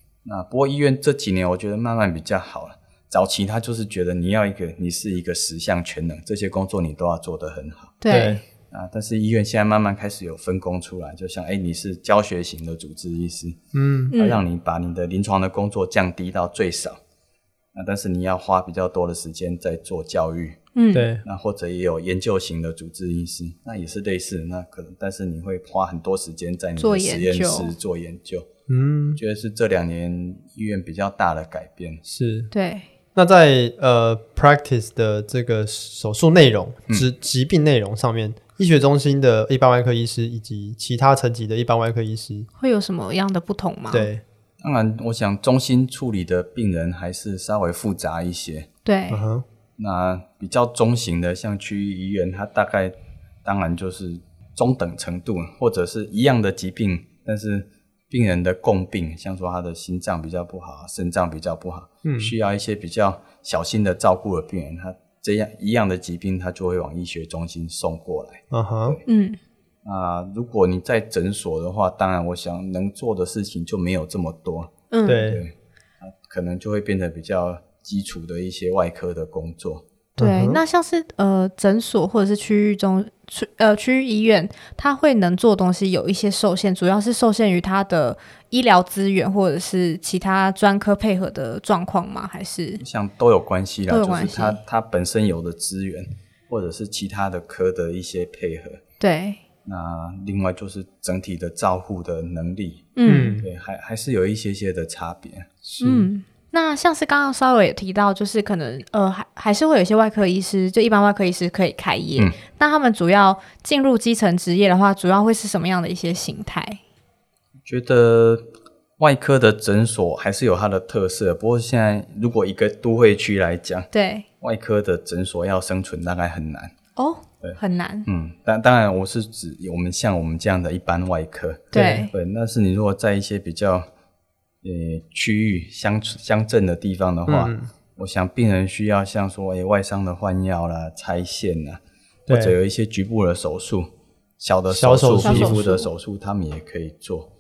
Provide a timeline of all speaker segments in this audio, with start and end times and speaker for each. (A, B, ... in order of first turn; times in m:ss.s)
0:00.2-0:08.0 A
0:08.0-0:08.4 B
0:08.1-0:08.4 C
0:08.7-0:13.6 A
0:13.7-0:14.1 C
0:14.1-0:14.4 B
0:14.2-0:17.0 A
0:17.7-0:20.6 A
0:20.8-0:21.1 B
0:20.9-0:21.2 C
0:21.2-0:28.5 A
0:26.8-0:27.7 B
0:28.7-0:29.2 C
0:29.2-0:32.0 A
0:32.0-0:32.5 C
0:32.5-0:32.9 B
0:33.2-0:42.5 C
0:42.6-0:44.1 B
0:43.9-0:44.2 C
0:44.6-0:48.7 A
0:48.8-0:49.2 B
0:49.1-0:49.4 C
0:49.8-1:09.0 A
1:02.0-1:02.3 C
1:08.5-1:09.0 C
1:09.1-1:09.4 B
1:09.8-1:19.8 A
1:14.9-1:15.3 B
1:15.1-1:15.4 C
1:20.2-1:20.6 C
1:20.2-1:32.8 B
1:32.8-1:38.8 A
1:33.9-1:34.6 B
1:39.0-1:39.4 B
1:39.7-1:45.5 A
1:43.0-1:43.4 B
1:43.1-1:43.5 C
1:45.6-1:46.1 C
1:45.8-1:56.8 B
1:57.6-1:58.4 A
1:59.0-2:03.9 A
2:03.9-2:04.3 B
2:04.4-2:06.7 A
2:07.0-2:08.1 B
2:07.4-2:13.9 A
2:11.7-2:12.1 B
2:11.7-2:12.0 C
2:14.6-2:27.3 A
2:17.3-2:17.7 C
2:22.3-2:22.6 C
2:24.7-2:25.7 C
2:25.2-2:25.9 B